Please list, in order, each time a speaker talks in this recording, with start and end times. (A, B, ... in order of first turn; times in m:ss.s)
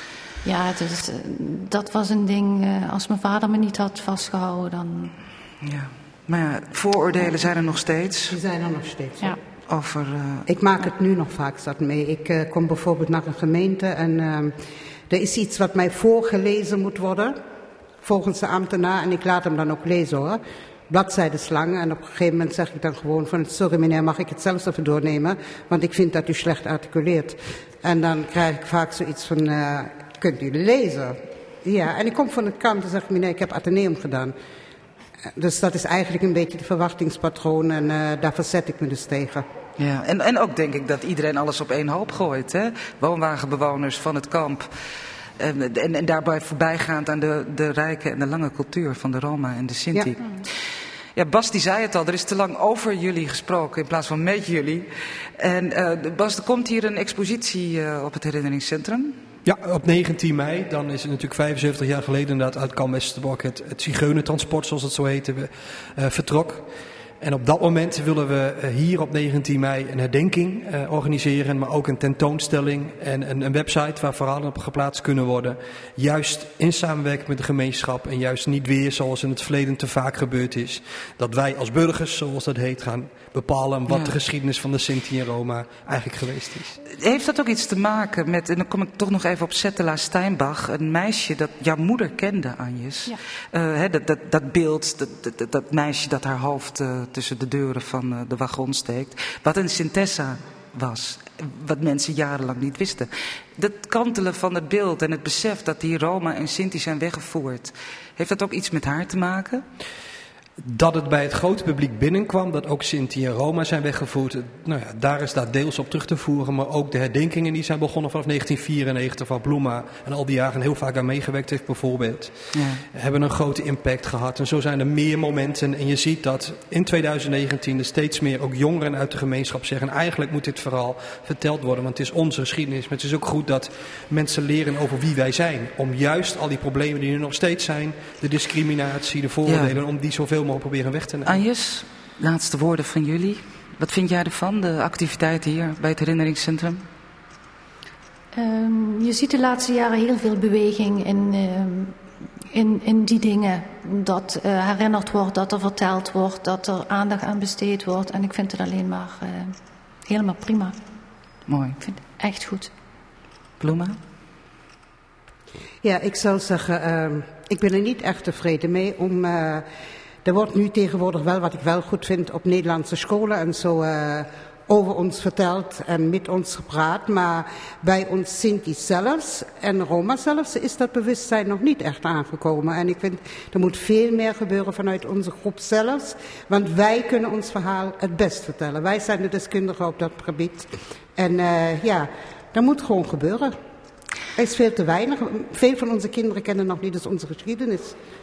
0:00.4-0:05.1 A
0:05.6-0:08.4 B
0:08.3-0:09.4 C
0:09.7-0:10.5 B
0:10.5-0:14.6 C
0:15.1-0:17.4 C
0:18.0-0:34.3 C
0:35.4-0:39.4 C
0:39.8-0:44.7 B
0:45.4-0:50.5 B
0:51.1-0:59.1 B
0:59.4-1:06.6 D
1:07.2-1:26.8 D
1:23.9-1:24.2 B
1:26.9-1:49.6 B
1:50.6-2:02.4 D
2:02.5-2:02.8 B
2:02.9-2:21.4 D
2:19.4-2:19.8 B
2:21.2-2:26.8 B
2:28.3-2:32.0 A
2:32.5-2:39.5 A
2:40.1-2:40.7 A
2:41.5-2:41.8 B
2:41.8-2:42.7 A
2:43.6-2:44.0 B
2:45.8-2:49.6 C
2:50.2-3:13.5 C
3:14.4-3:18.0 C